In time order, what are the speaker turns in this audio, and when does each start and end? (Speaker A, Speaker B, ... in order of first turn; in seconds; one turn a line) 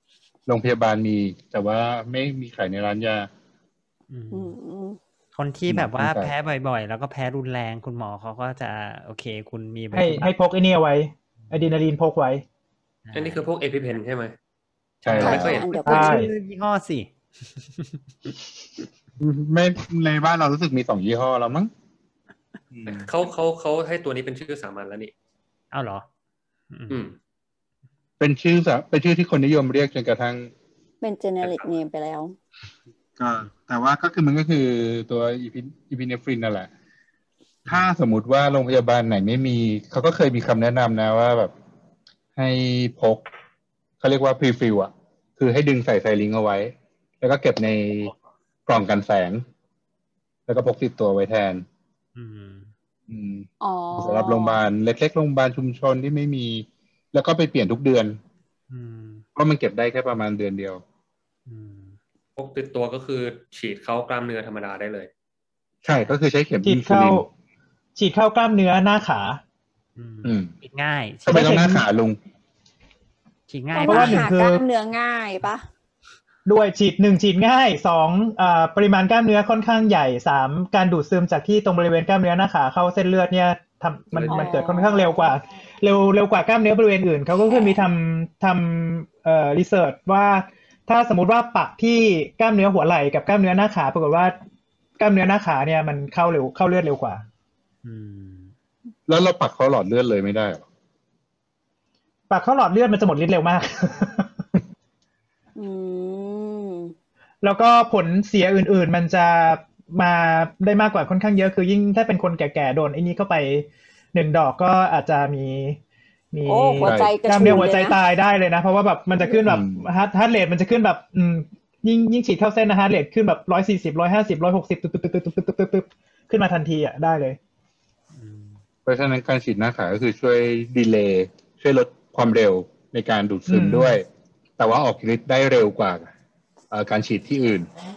Speaker A: 0.5-3.3
Speaker B: 4.1-4.5
Speaker C: 4.3-5.0
Speaker B: 5.3-10.3
Speaker A: 5.7-6.3
Speaker D: 9.9-12.4
Speaker B: 13.0-13.4
Speaker E: 13.1-14.3
Speaker A: 15.0-15.6
Speaker E: 15.0-15.7
Speaker C: 15.2-16.2
Speaker B: 15.2-18.0
Speaker D: 15.8-16.3
Speaker A: 19.2-21.7
Speaker A: 22.7-23.1
Speaker E: 23.1-25.1
Speaker B: 25.7-26.1
Speaker B: 26.7-27.0
Speaker E: 26.9-27.1
Speaker A: 28.2-30.5
Speaker C: 31.0-32.3
Speaker E: 31.4-31.7
Speaker A: 33.2-36.7
Speaker A: 37.6-41.5
Speaker A: 42.4-43.2
Speaker A: 44.0-48.1
Speaker A: 48.6-49.4
Speaker A: 50.5-51.6
Speaker B: 52.1-52.7
Speaker A: 53.1-58.2
Speaker C: 53.6-54.6
Speaker B: 58.7-59.2
Speaker A: 59.3-60.8
Speaker B: 61.5-62.0
Speaker E: 62.4-65.1
Speaker A: 65.8-67.2
Speaker D: 66.6-67.3
Speaker D: 68.0-69.4
Speaker B: 70.0-71.7
Speaker A: 70.2-70.5
Speaker A: 71.2-72.2
Speaker D: 71.3-71.8
Speaker B: 73.5-74.3
Speaker C: 73.7-75.7
Speaker D: 73.8-74.6
Speaker D: 76.5-94.4
Speaker E: 84.1-84.7
Speaker C: 84.3-85.4
Speaker D: 95.0-97.2
Speaker B: 97.8-98.5
Speaker A: 99.1-100.6
Speaker D: 102.3-104.4
Speaker C: 105.6-106.9
Speaker D: 107.4-115.8
Speaker D: 116.3-127.4
Speaker C: 116.5-118.0
Speaker A: 116.8-117.6
Speaker A: 119.5-119.9
Speaker B: 128.1-128.6
Speaker A: 128.8-134.0
Speaker D: 133.5-134.0
Speaker A: 134.6-136.1
Speaker A: 136.7-137.7